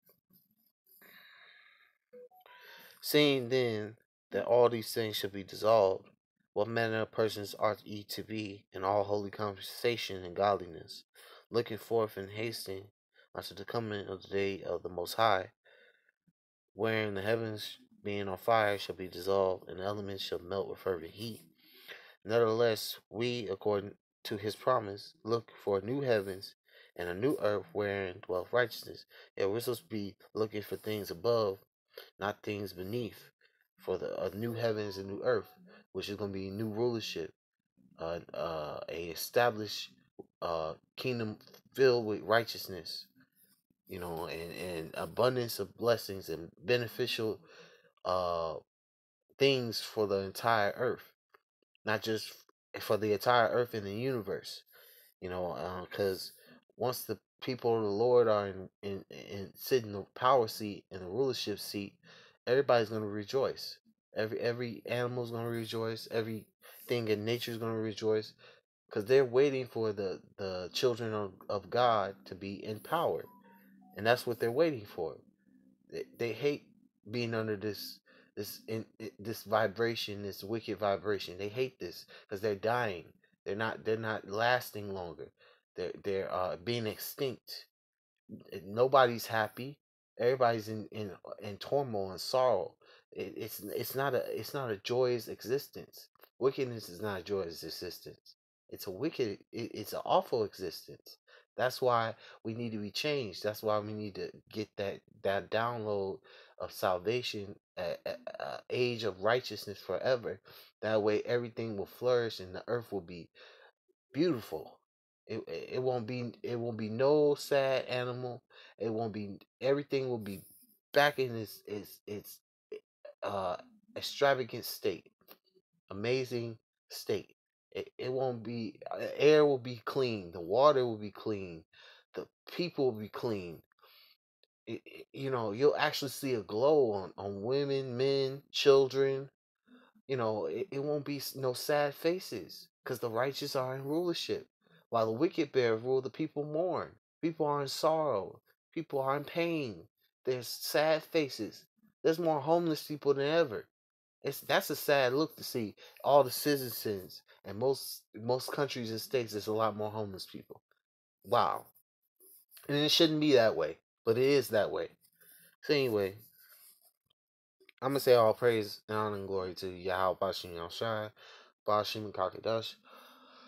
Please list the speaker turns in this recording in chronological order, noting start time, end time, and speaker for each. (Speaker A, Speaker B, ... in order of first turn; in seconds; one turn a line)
Speaker A: 3.0-15.5
Speaker A: 16.7-21.5
Speaker A: 22.2-31.6
Speaker A: 32.2-37.3
Speaker A: 38.0-43.1
Speaker A: 43.9-47.4
Speaker A: 48.0-48.6
Speaker A: 49.4-51.1
Speaker A: 51.8-54.6
Speaker A: 55.2-68.3
Speaker A: 68.9-73.3
Speaker A: 73.9-75.2
Speaker A: 75.9-87.7
Speaker A: 88.5-113.3
Speaker A: 114.1-122.4
Speaker A: 123.2-125.1
Speaker A: 125.9-133.7
Speaker A: 134.7-139.3
Speaker A: 140.1-153.7
Speaker A: 154.2-160.6
Speaker A: 161.2-161.7
Speaker A: 162.7-164.9
Speaker A: 165.6-166.2
Speaker A: 167.8-171.1
Speaker A: 171.6-172.8